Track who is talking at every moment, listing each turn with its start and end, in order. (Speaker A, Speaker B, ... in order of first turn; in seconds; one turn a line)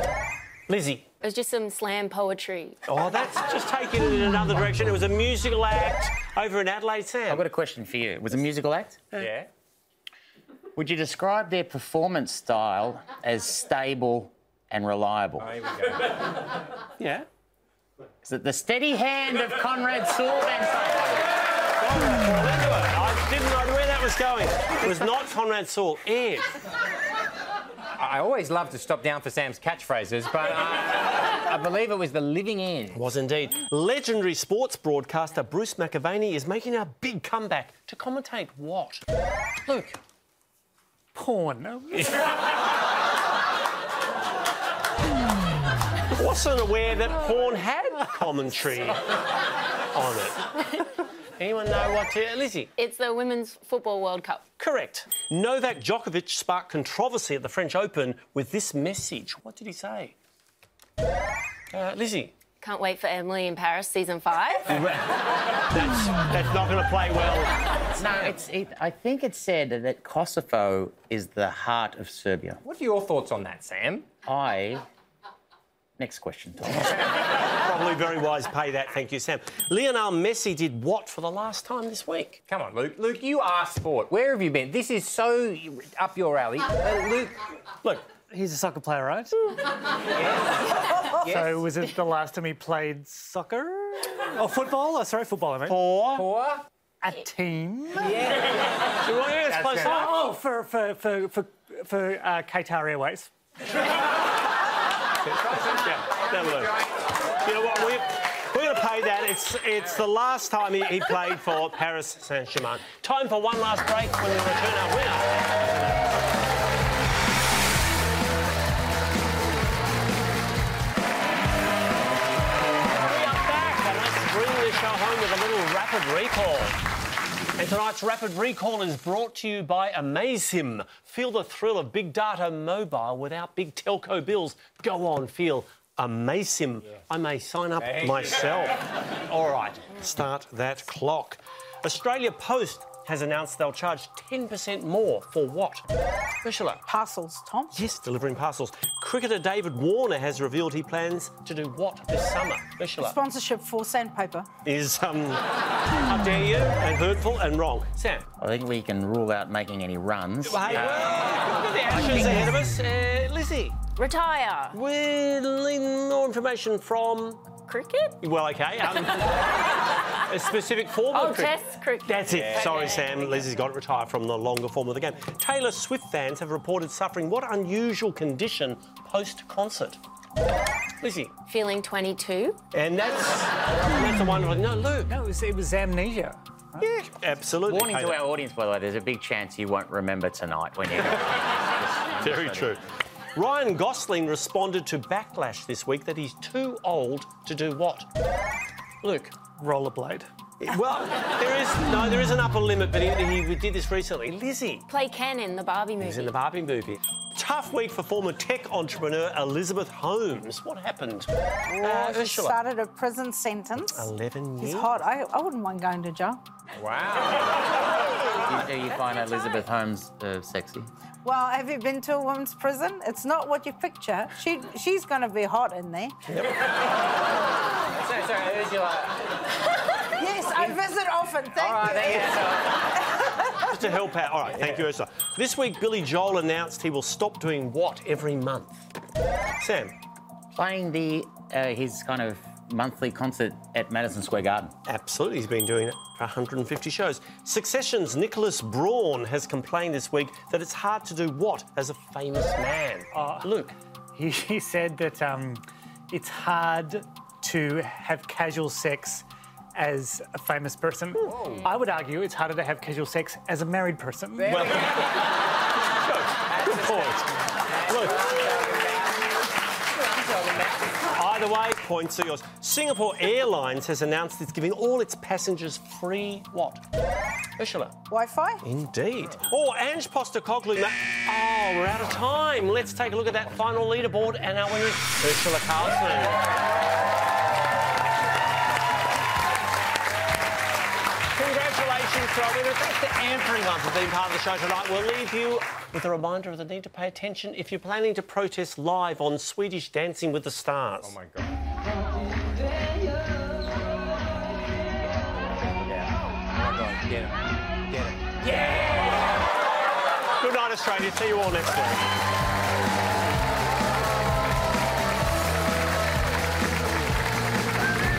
Speaker A: 0.7-1.1
Speaker B: 1.2-2.8
Speaker A: 2.9-7.5
Speaker C: 7.3-9.0
Speaker D: 9.1-9.5
Speaker C: 10.8-15.5
Speaker D: 15.4-16.1
Speaker A: 17.0-17.3
Speaker C: 18.2-21.2
Speaker A: 21.8-26.6
Speaker D: 28.0-33.0
Speaker A: 32.9-39.0
Speaker A: 39.6-40.0
Speaker E: 41.1-42.1
Speaker A: 46.1-49.0
Speaker A: 49.9-50.5
Speaker A: 51.4-52.7
Speaker B: 52.8-54.5
Speaker A: 54.6-60.1
Speaker A: 61.7-62.3
Speaker B: 62.6-64.8
Speaker A: 64.7-68.3
Speaker C: 68.0-72.6
Speaker D: 72.6-74.1
Speaker C: 74.2-74.8
Speaker C: 76.0-77.1
Speaker A: 77.4-82.4
Speaker D: 82.5-87.4
Speaker E: 88.3-89.4
Speaker D: 90.1-91.7
Speaker E: 91.2-95.8
Speaker A: 95.7-96.3
Speaker D: 96.1-96.6
Speaker E: 97.0-98.2
Speaker D: 98.0-98.7
Speaker A: 99.0-100.2
Speaker D: 99.5-100.1
Speaker E: 99.7-103.3
Speaker A: 105.3-115.5
Speaker D: 105.3-106.8
Speaker A: 123.0-126.8
Speaker A: 127.6-145.8
Speaker D: 137.8-138.4
Speaker A: 146.4-146.8
Speaker F: 146.9-147.8
Speaker A: 147.7-153.2
Speaker F: 153.0-154.5
Speaker A: 154.6-155.4
Speaker A: 156.0-158.3
Speaker C: 158.4-160.8
Speaker A: 160.4-163.8
Speaker D: 160.8-161.1
Speaker E: 161.9-162.5
Speaker B: 163.9-164.8
Speaker A: 164.7-167.5
Speaker B: 167.6-168.2
Speaker A: 168.2-169.6
Speaker A: 170.3-180.0
Speaker B: 171.1-173.5
Speaker D: 172.3-173.2
Speaker A: 181.0-181.3
Speaker B: 181.4-182.6
Speaker A: 182.7-185.1
Speaker E: 185.1-186.8
Speaker A: 186.8-188.2
Speaker C: 187.7-192.8
Speaker A: 192.2-192.8
Speaker A: 193.3-198.1
Speaker A: 199.0-199.3
Speaker E: 199.6-200.3
Speaker A: 200.6-204.9
Speaker B: 204.9-206.4
Speaker A: 206.0-212.6
Speaker F: 211.8-216.4
Speaker A: 213.8-215.0
Speaker D: 216.8-217.7
Speaker C: 218.4-220.9
Speaker F: 221.2-226.2
Speaker D: 227.9-229.3
Speaker F: 230.2-232.8
Speaker D: 230.5-230.8
Speaker D: 231.6-232.8
Speaker A: 233.7-238.9
Speaker A: 239.6-239.9
Speaker C: 240.6-244.7
Speaker A: 244.9-253.8
Speaker E: 253.1-253.5
Speaker E: 254.1-264.7
Speaker D: 261.2-261.7
Speaker D: 264.4-265.2
Speaker A: 264.5-265.3
Speaker A: 266.0-268.3
Speaker D: 266.4-271.1
Speaker A: 271.1-276.8
Speaker A: 277.6-277.9
Speaker F: 278.1-278.6
Speaker A: 278.6-286.4
Speaker A: 291.3-301.1
Speaker D: 301.0-301.5
Speaker D: 305.7-309.2
Speaker A: 310.4-312.1